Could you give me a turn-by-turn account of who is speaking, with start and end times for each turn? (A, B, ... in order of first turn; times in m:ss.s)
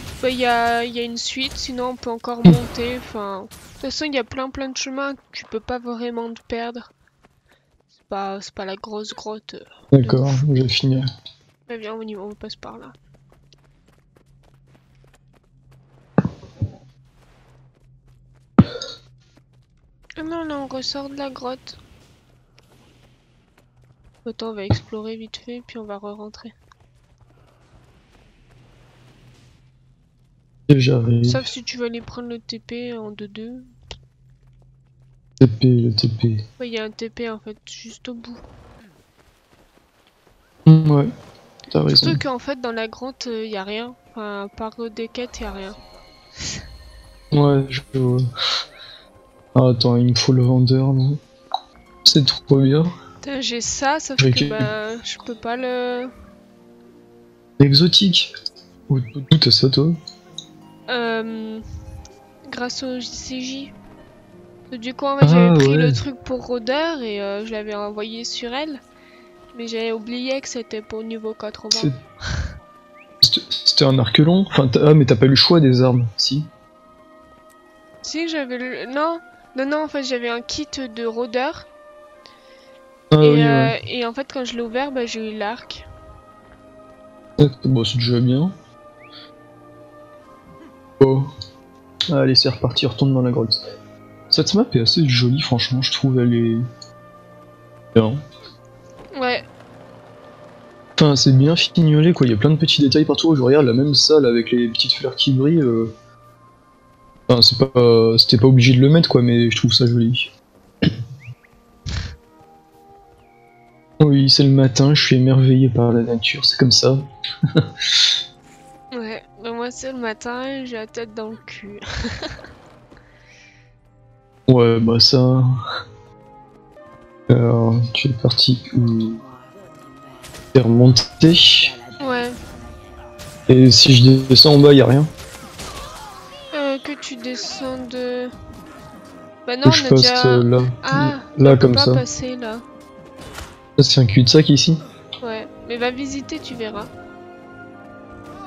0:00.2-0:06.9 A
0:08.0-0:10.4 A
0:09.9-0:11.0 B
0:11.7-0:13.0 A
0:20.2-0:21.8 A
0:24.2-0:26.5 A
0:30.7-0:31.5 B
0:31.2-0:33.7 A
0:35.4-0:36.4 B
0:36.6-0:38.4 A
0:40.7-0:41.1 B
0:41.7-0:42.2 B
0:41.9-0:45.8 A
0:47.3-0:48.2 B
0:49.6-0:51.2 B
0:52.0-0:52.9 B
0:53.2-0:56.1 A
0:54.2-0:54.7 B
0:57.6-0:58.3 B
0:58.9-1:00.0 B
1:00.9-1:01.6 A
1:02.5-1:03.7 A
1:04.7-1:08.8 A
1:05.2-1:06.0 B
1:09.5-1:12.4 A
1:13.2-1:16.5 B
1:18.0-1:21.7 A
1:23.1-1:23.8 B
1:23.2-1:25.8 A
1:27.4-1:28.6 B
1:31.0-1:31.3 B
1:32.1-1:33.6 B
1:34.3-1:36.6 B
1:39.1-1:39.4 A
1:41.0-1:45.9 B
1:47.3-1:50.3 B
1:54.0-1:57.0 B
1:57.6-1:58.0 B
1:58.9-2:02.4 A
2:04.5-2:05.5 B
2:07.3-2:09.2 B
2:10.5-2:11.8 B
2:12.0-2:12.4 A
2:13.5-2:15.1 B
2:16.5-2:18.3 A
2:19.5-2:22.6 A
2:19.6-2:22.0 B
2:23.8-2:24.8 B
2:25.2-2:26.9 A